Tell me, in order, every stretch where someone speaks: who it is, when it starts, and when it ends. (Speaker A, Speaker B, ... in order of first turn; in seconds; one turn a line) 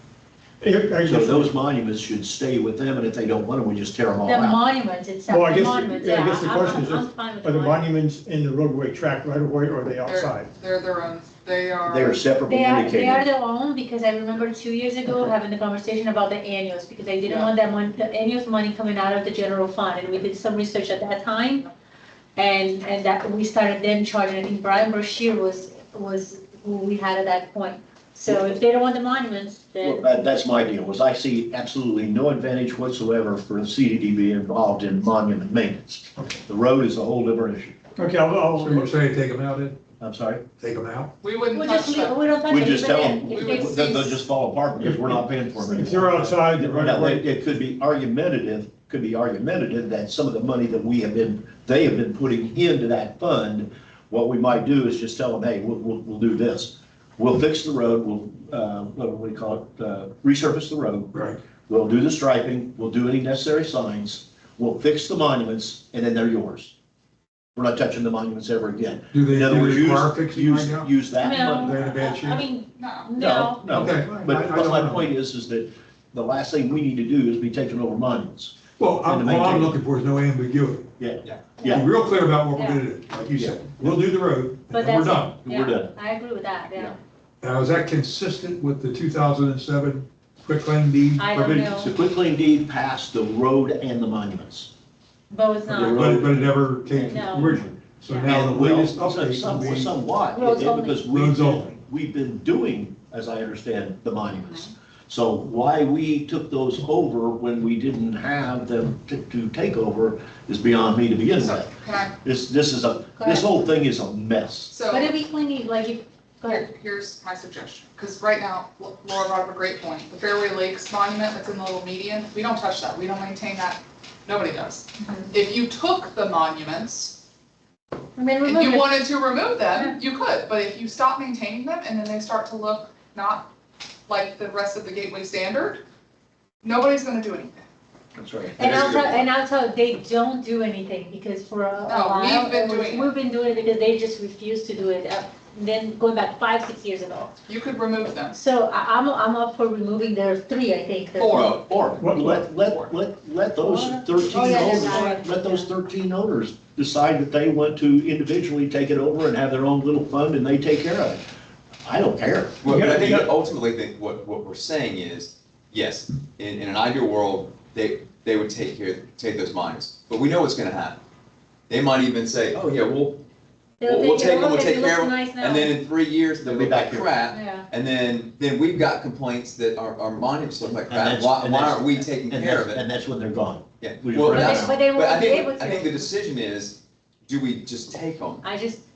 Speaker A: 0.6-1.5
Speaker B: 1.1-4.6
Speaker C: 4.2-7.9
Speaker A: 5.3-10.5
Speaker D: 10.1-12.4
Speaker B: 11.9-13.3
Speaker C: 12.5-21.7
Speaker D: 17.2-17.5
Speaker C: 22.4-30.0
Speaker B: 28.2-28.6
Speaker B: 29.8-37.8
Speaker A: 38.0-38.9
Speaker E: 38.6-39.8
Speaker B: 40.0-40.4
Speaker E: 40.6-41.1
Speaker D: 41.2-44.1
Speaker C: 41.5-44.2
Speaker B: 42.5-61.1
Speaker A: 44.8-47.3
Speaker B: 61.7-66.7
Speaker B: 67.6-71.7
Speaker E: 69.1-72.5
Speaker C: 71.2-73.8
Speaker D: 72.8-73.1
Speaker B: 73.2-79.8
Speaker E: 73.7-75.1
Speaker E: 78.8-80.9
Speaker B: 81.0-81.8
Speaker F: 81.2-81.6
Speaker E: 81.7-85.3
Speaker C: 82.5-82.8
Speaker B: 83.3-84.0
Speaker C: 84.7-87.0
Speaker B: 85.4-86.0
Speaker E: 87.4-91.6
Speaker C: 91.2-91.9
Speaker B: 91.4-94.7
Speaker C: 95.3-96.0
Speaker B: 95.7-114.7
Speaker E: 95.8-100.0
Speaker C: 97.0-98.2
Speaker C: 100.3-101.1
Speaker E: 101.1-101.7
Speaker D: 111.4-112.1
Speaker C: 113.2-113.5
Speaker D: 114.7-115.1
Speaker C: 114.9-116.7
Speaker D: 116.4-127.2
Speaker C: 125.0-125.3
Speaker C: 128.2-129.1
Speaker D: 128.4-133.5
Speaker C: 129.7-130.0
Speaker D: 134.1-135.8
Speaker D: 136.6-137.6
Speaker B: 138.2-139.3
Speaker C: 138.6-147.3
Speaker D: 141.8-143.2
Speaker D: 147.5-148.4
Speaker C: 148.4-151.6
Speaker D: 151.2-151.8
Speaker F: 151.3-151.6
Speaker B: 151.7-161.2
Speaker A: 152.0-152.5
Speaker C: 153.6-155.7
Speaker A: 154.5-155.1
Speaker B: 161.9-162.7
Speaker F: 162.6-171.0
Speaker A: 162.7-163.3
Speaker F: 171.7-173.2
Speaker C: 173.8-175.7
Speaker F: 173.8-182.8
Speaker B: 176.4-177.1
Speaker C: 177.3-177.7
Speaker B: 180.8-184.8
Speaker F: 183.8-188.4
Speaker C: 184.3-186.1
Speaker C: 188.4-188.8